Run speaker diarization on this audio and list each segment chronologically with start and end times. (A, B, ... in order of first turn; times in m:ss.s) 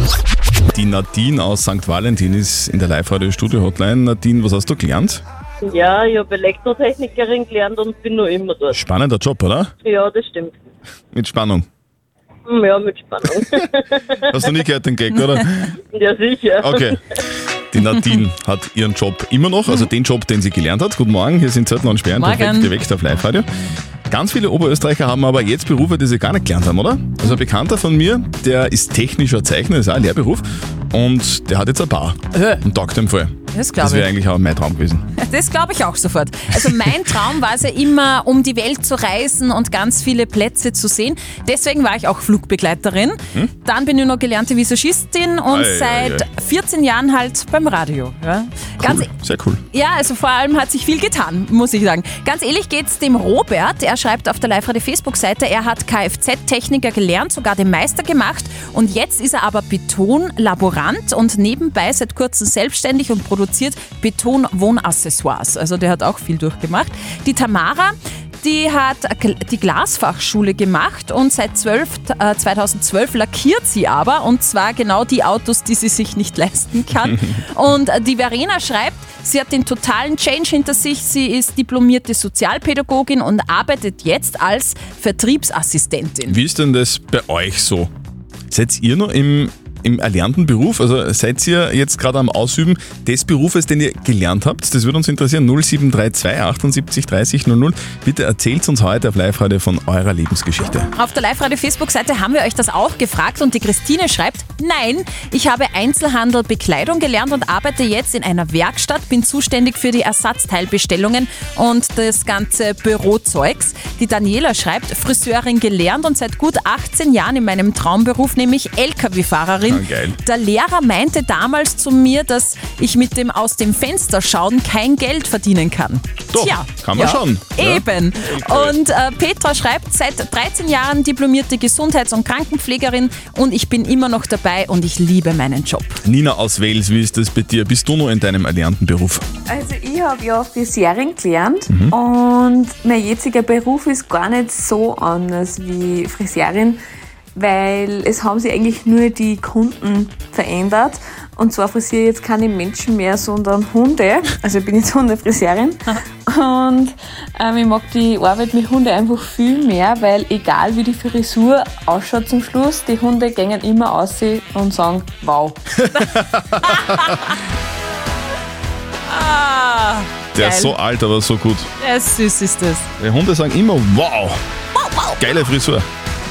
0:00.7-0:05.2 A
0:05.6-0:08.8 B
0:08.7-0:09.7 A
0:09.8-0:10.5 B
0:11.1-0:11.6 A
0:12.4-0:14.4 B
0:14.3-0:15.7 A
0:15.9-0:16.9 B
0:16.6-0:17.0 A
0:17.7-0:23.5 A
0:22.2-0:22.7 C
0:24.1-0:35.1 A
0:32.3-0:32.6 C
0:33.5-0:34.1 C
0:35.2-0:49.1 C
0:45.5-0:46.3 A
0:48.8-0:49.6 A
0:49.7-1:26.4 C
1:26.2-1:27.9 A
1:28.5-1:40.9 A
1:40.9-2:16.0 C
1:59.6-2:00.2 A
2:06.3-2:08.8 A
2:16.0-2:19.2 A
2:19.5-2:26.8 D
2:21.7-2:21.9 A
2:27.3-2:45.6 D
2:45.8-2:47.1 A
2:46.6-2:47.2 C
2:49.1-2:50.7 C
2:50.3-2:51.7 A
2:51.8-2:52.8 C
2:53.0-2:54.4 A
2:54.8-2:55.2 C
2:55.2-2:55.8 A